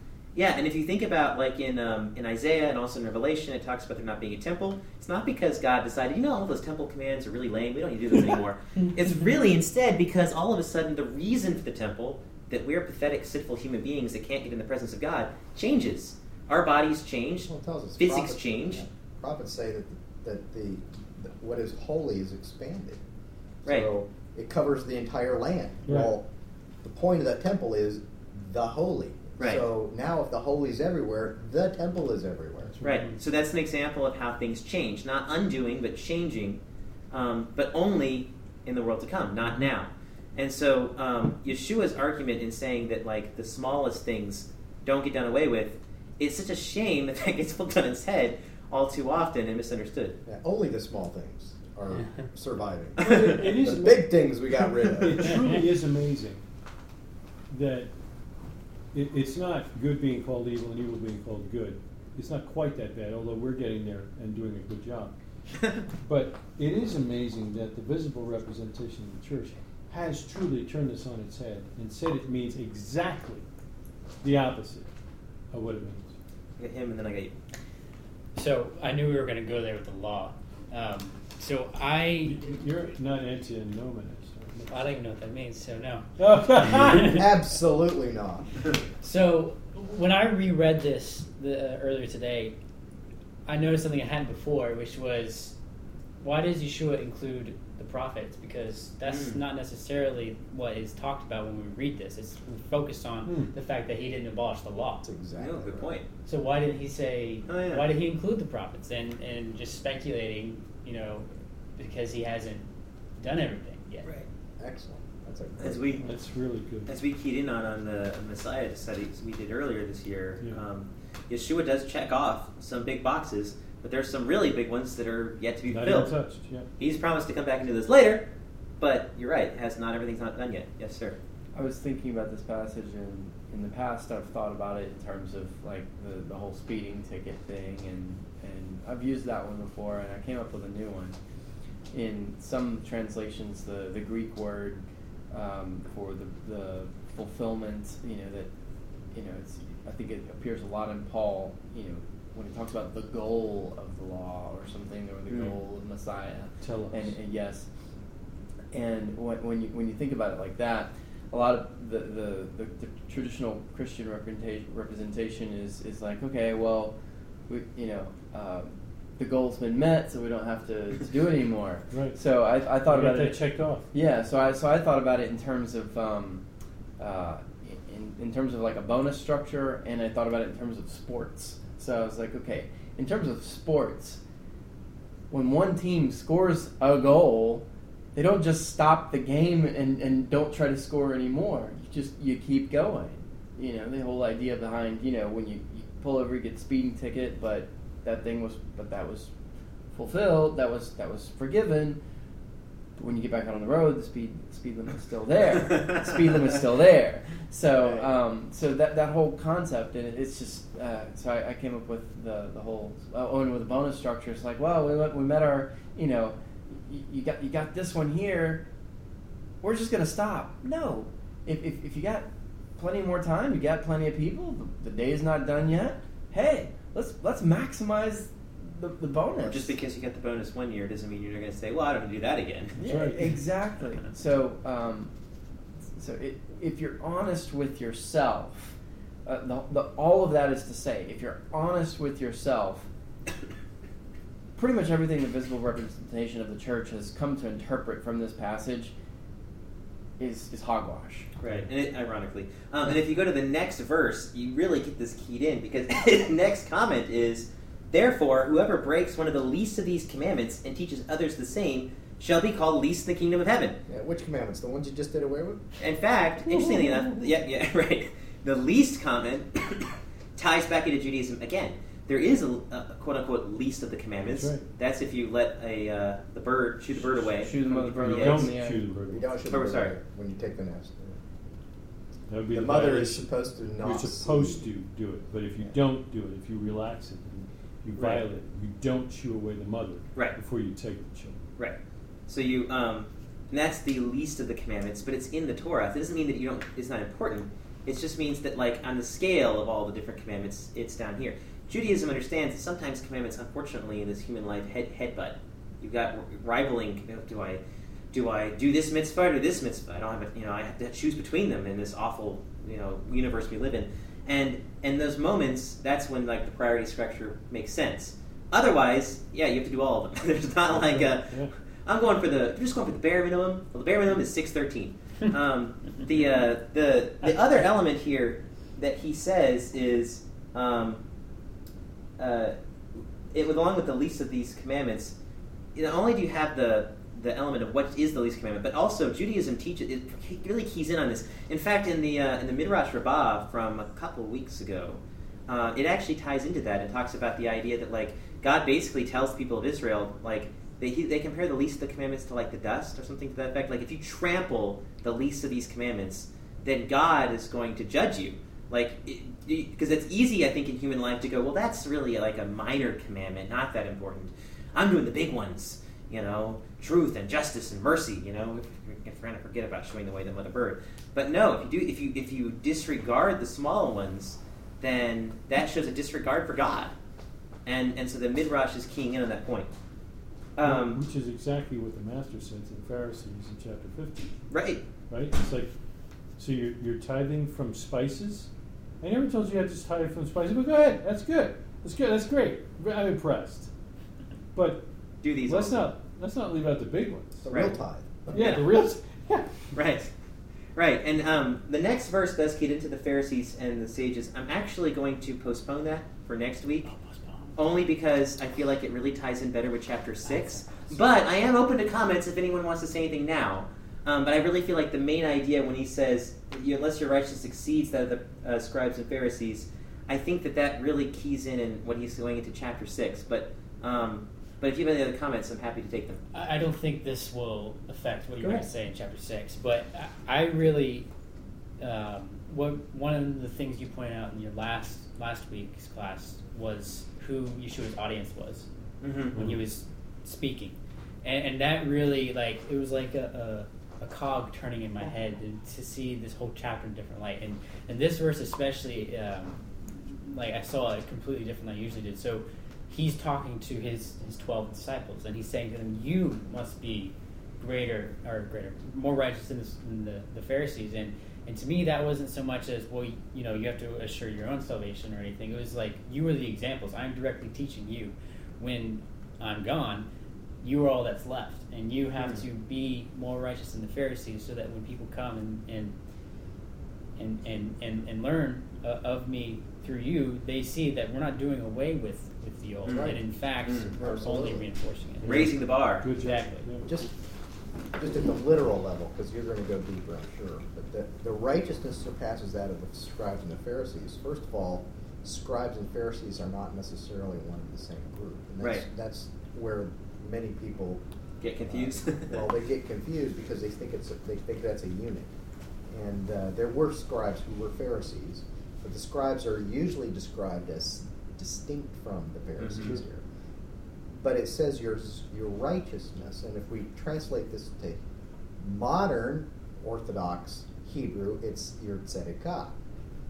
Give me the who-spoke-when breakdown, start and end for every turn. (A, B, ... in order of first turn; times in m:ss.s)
0:00.3-0:18.8 A
0:17.5-0:23.0 B
0:23.6-0:23.9 A
0:23.6-0:26.2 B
0:25.9-0:26.1 C
0:26.8-0:32.8 B
0:29.4-0:29.6 A
0:32.7-0:33.2 C
0:32.8-0:36.6 A
0:37.1-0:50.2 A
0:50.2-0:55.4 B
0:53.0-0:54.4 C
0:54.9-0:56.4 C
0:57.5-0:57.9 C
0:58.9-1:05.2 C
1:06.0-1:13.4 C
1:14.2-1:14.9 C
1:15.5-1:16.1 C
1:16.6-1:17.4 A
1:18.3-1:22.4 D
1:22.2-1:24.8 C
1:24.7-1:26.1 D
1:26.2-1:27.2 C
1:26.6-1:27.2 D
1:26.8-1:28.5 B
1:29.0-1:32.6 D
1:33.4-1:35.6 D
1:36.2-1:45.1 D
1:39.0-1:39.4 A
1:43.2-1:43.5 C
1:45.0-1:45.9 B
1:45.4-1:46.1 A
1:46.2-1:54.1 D
1:47.5-1:47.8 A
1:54.6-1:56.0 B
1:55.6-1:56.0 A
1:56.0-1:56.9 C
1:56.9-2:06.1 A
2:05.7-2:06.7 C
2:06.8-2:08.3 A
2:08.8-2:11.2 A
2:11.5-2:21.2 E
2:21.9-2:28.5 E
2:29.1-2:37.7 E
2:35.3-2:35.6 A
2:36.6-2:37.2 C
2:38.7-2:46.9 E
2:47.5-2:56.4 E
2:51.9-2:52.2 C
2:52.9-2:53.9 C
2:57.0-3:04.2 E
3:05.3-3:19.3 E
3:19.9-3:22.0 E
3:23.0-3:38.6 E
3:39.6-3:49.8 E
3:49.4-3:52.8 A
3:52.8-3:55.1 E
3:52.8-3:53.4 C
3:55.9-4:02.9 E
4:04.6-4:08.9 E
4:10.2-4:11.3 E
4:11.4-4:23.8 A
4:23.9-4:25.6 B
4:25.8-4:38.5 A
4:34.2-4:34.6 C
4:37.2-4:38.9 E
4:38.0-4:39.4 C
4:39.1-4:41.2 B
4:39.5-4:39.9 A
4:42.3-4:51.4 C
4:42.5-4:44.6 B
4:48.0-4:48.2 A
4:52.3-5:07.6 A
5:08.1-5:31.0 A
5:20.7-5:21.5 C
5:32.2-5:32.6 A
5:33.3-5:35.2 A
5:35.7-6:16.9 A
6:17.6-6:19.7 A
6:20.6-6:21.0 A
6:20.6-6:24.4 C
6:24.5-6:24.8 A
6:25.1-6:25.7 C
6:26.4-6:33.7 C
6:34.5-6:34.8 C
6:35.2-6:35.9 A
6:35.4-6:37.6 C
6:37.4-6:38.6 B
6:37.5-6:37.7 A
6:38.3-6:39.7 C
6:38.3-6:38.6 A
6:39.7-6:40.1 A
6:40.7-6:46.9 A
6:46.8-6:47.6 D
6:47.6-7:06.2 A
6:50.2-6:51.0 D
7:06.3-7:11.1 D
7:08.4-7:08.6 A
7:11.8-7:18.7 D
7:19.0-7:19.4 A
7:19.3-7:19.6 C
7:19.3-7:50.1 D
7:50.6-7:56.0 D
7:52.2-7:52.4 A
7:57.2-8:05.5 D
8:02.8-8:03.9 A
8:02.8-8:03.2 B
8:04.0-8:04.6 B
8:05.2-8:06.9 C
8:05.2-8:06.0 A
8:06.1-8:06.7 D
8:06.8-8:07.1 B
8:07.9-8:21.0 B
8:18.6-8:18.8 A
8:21.4-8:22.5 A
8:21.6-8:25.3 B
8:25.9-8:33.2 B
8:32.6-8:33.0 A
8:34.1-8:38.0 B
8:38.6-8:42.8 B